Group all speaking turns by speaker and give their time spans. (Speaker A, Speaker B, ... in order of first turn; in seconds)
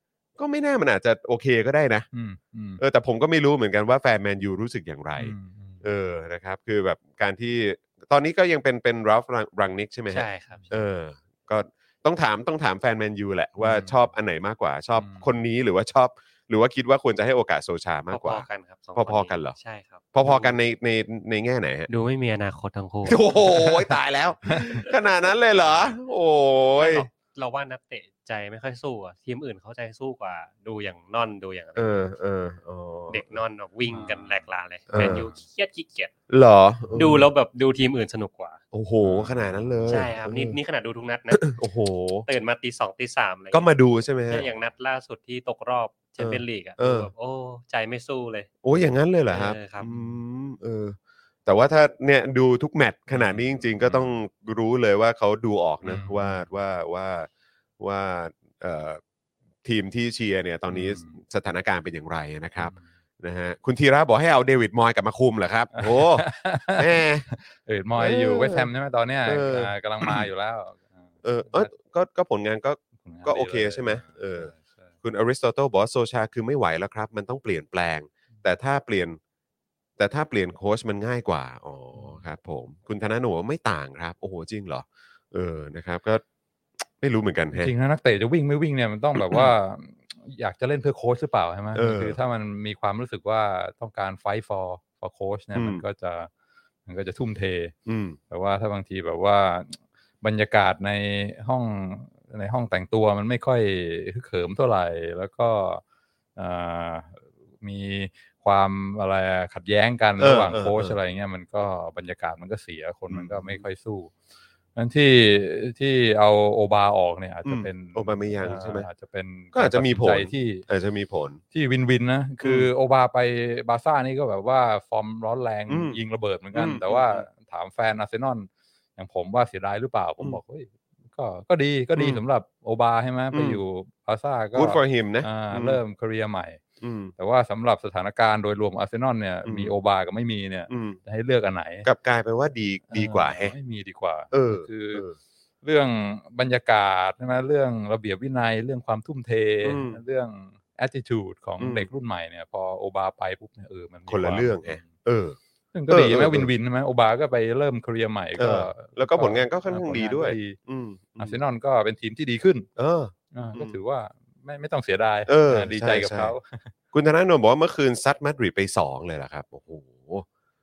Speaker A: 0.4-2.1, 2.8-19.6, 20.1-21.9, 23.0-27.1, 31.8-33.3, 34.9-35.3, 36.3-37.2, 38.7-40.6, 41.3-42.2, 43.5-44.5, 46.2-47.1, 48.6-59.0, 59.6-67.3, 68.0-68.7, 69.2-70.3, 71.2-74.5, 75.0-79.2, 80.0-86.2, 87.0-87.7, 89.2-89.5, 91.7-92.2, 95.5-95.8, 97.8-98.2, 110.2-111.0, 113.1-113.6, 117.4-118.9, 119.5-121.4, 122.4-122.7, 125.7-126.0, 126.5-127.2, 131.9-132.2, 133.3-133.6, 134.5-135.8, 136.8-137.1, 139.4-139.7, 140.7-141.0, 141.8-143.5, 144.3-145.2, 149.6-150.0, 151.6-151.9, 154.1-155.4, 155.9-156.5, 158.4-161.4, 162.8-163.8, 165.3-166.3, 166.9-170.2
Speaker B: 2.1-2.8, 5.2-5.8, 13.6-14.0, 14.9-15.3, 24.5-24.8, 33.9-35.3, 39.0-40.1, 53.1-54.2, 55.8-56.4, 60.7-61.2, 62.6-62.8, 65.7-71.7, 73.0-74.9, 81.9-82.2, 87.5-96.3, 96.8-97.7, 98.3-105.8, 106.3-114.1, 114.7-120.6, 121.5-136.6, 137.2-141.9, 142.9-145.0, 145.6-154.9, 155.7-160.6, 161.2-162.7, 163.3-166.7
Speaker C: 10.1-10.8, 18.1-20.6, 21.9-23.7, 25.6-25.9, 26.8-32.1, 33.1-36.1, 36.9-38.6, 39.9-41.6, 42.2-43.7, 44.3-49.9